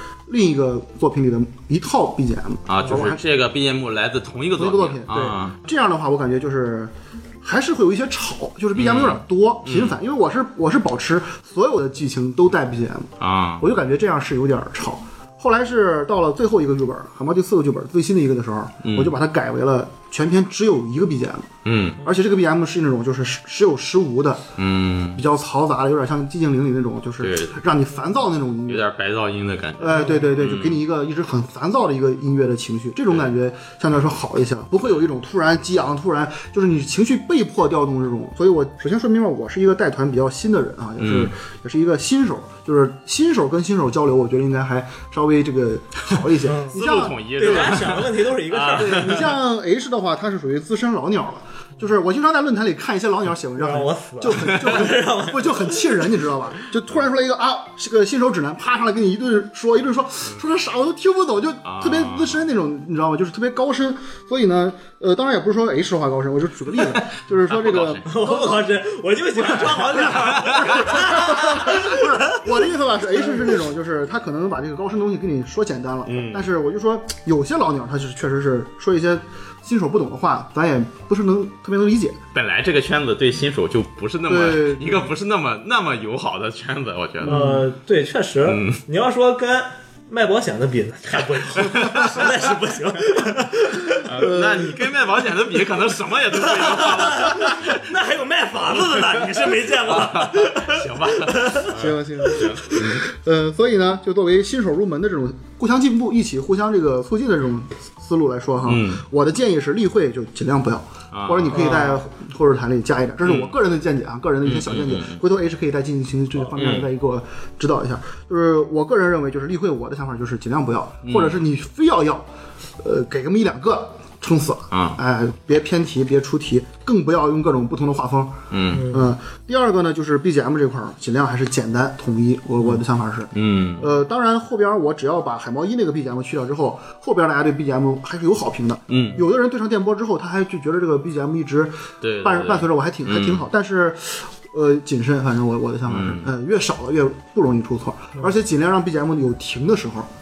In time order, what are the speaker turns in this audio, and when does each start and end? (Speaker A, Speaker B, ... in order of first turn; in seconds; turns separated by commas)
Speaker A: 0.3-3.2, Speaker B: 2.7-5.5, Speaker A: 4.5-24.4, Speaker B: 8.7-10.0, Speaker B: 13.2-13.7, Speaker B: 18.8-19.1, Speaker B: 21.6-22.0, Speaker B: 24.6-25.2, Speaker A: 25.1-28.9, Speaker B: 27.2-27.6, Speaker B: 28.7-30.8, Speaker A: 29.8-47.9, Speaker B: 41.0-41.3, Speaker C: 46.4-46.8, Speaker B: 46.7-49.3, Speaker C: 47.3-49.3, Speaker A: 48.7-68.6, Speaker C: 53.6-56.1, Speaker B: 54.5-54.9, Speaker B: 61.6-62.4, Speaker B: 66.9-68.1, Speaker C: 68.0-72.4, Speaker A: 69.6-82.2, Speaker B: 70.0-71.7, Speaker C: 73.2-73.5, Speaker B: 76.0-76.5, Speaker B: 82.3-87.4, Speaker A: 84.3-85.1, Speaker A: 87.2-87.6, Speaker C: 87.2-94.1, Speaker B: 88.4-88.8, Speaker B: 91.5-92.3, Speaker B: 94.0-97.8, Speaker A: 94.1-94.8, Speaker C: 96.3-101.7, Speaker B: 99.1-103.1, Speaker A: 101.7-122.2, Speaker B: 108.6-109.0, Speaker B: 111.1-111.9, Speaker C: 111.5-112.0, Speaker B: 113.2-113.5, Speaker B: 114.4-115.2, Speaker B: 116.5-116.9, Speaker B: 121.0-121.4, Speaker A: 122.8-150.1, Speaker B: 124.7-125.0, Speaker B: 128.5-128.9, Speaker C: 128.7-129.1, Speaker B: 133.3-133.9, Speaker B: 138.9-139.2, Speaker B: 142.0-143.4, Speaker B: 145.9-146.3